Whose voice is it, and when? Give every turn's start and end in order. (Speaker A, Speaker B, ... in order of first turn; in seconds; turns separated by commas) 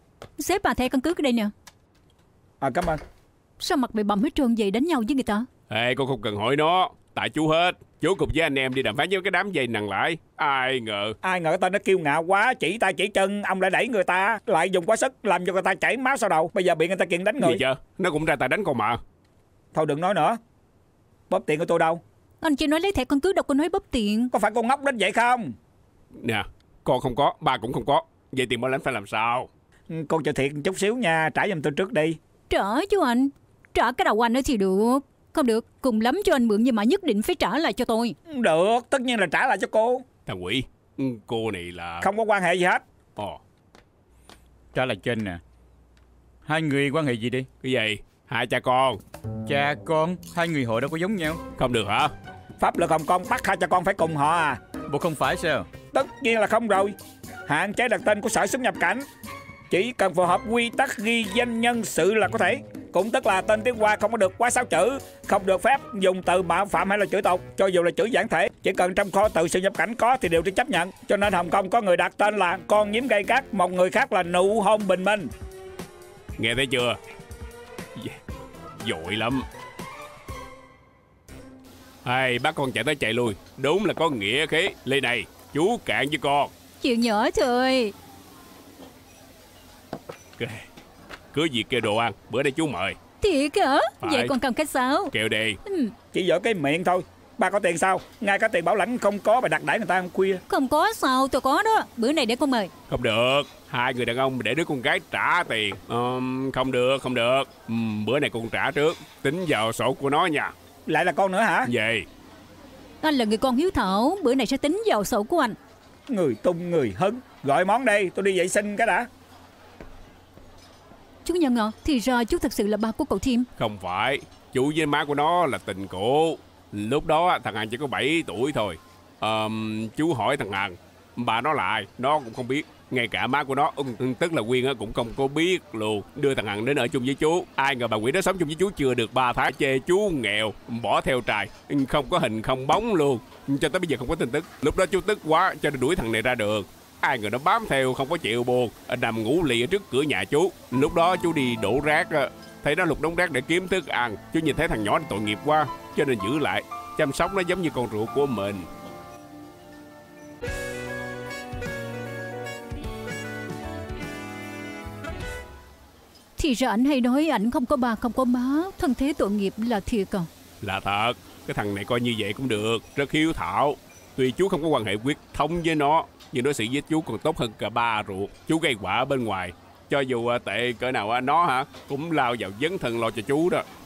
Speaker A: 0.4-1.5, Speaker B: 2.6-3.0, Speaker A: 3.6-5.5, Speaker C: 5.7-11.2, Speaker B: 11.2-17.6, Speaker C: 17.4-19.0, Speaker B: 19.7-20.4, Speaker B: 21.3-22.0, Speaker A: 22.4-24.3, Speaker B: 24.3-25.6, Speaker C: 26.2-29.5, Speaker B: 29.9-32.2, Speaker A: 32.5-38.2, Speaker B: 38.3-40.0, Speaker C: 40.3-42.1, Speaker B: 42.0-42.8, Speaker D: 44.7-45.4, Speaker D: 46.5-47.5, Speaker C: 47.6-49.0, Speaker D: 49.5-51.4, Speaker C: 51.6-52.1, Speaker B: 52.6-54.6, Speaker D: 54.9-55.7, Speaker B: 55.9-57.0, Speaker B: 57.5-59.1, Speaker B: 59.7-75.3, Speaker C: 76.4-77.0, Speaker C: 78.8-79.5, Speaker C: 82.0-86.5, Speaker A: 86.8-88.0, Speaker C: 90.4-90.7, Speaker C: 91.3-93.0, Speaker A: 93.2-95.1, Speaker C: 94.0-94.3, Speaker C: 95.1-95.6, Speaker A: 95.7-95.9, Speaker B: 96.1-100.4, Speaker A: 100.5-102.7, Speaker C: 102.9-110.5, Speaker B: 110.9-111.7, Speaker C: 111.7-112.1, Speaker A: 113.0-115.6, Speaker B: 116.1-119.1, Speaker A: 121.2-123.5, Speaker C: 123.6-158.7, Speaker A: 166.4-170.3, Speaker C: 170.6-183.7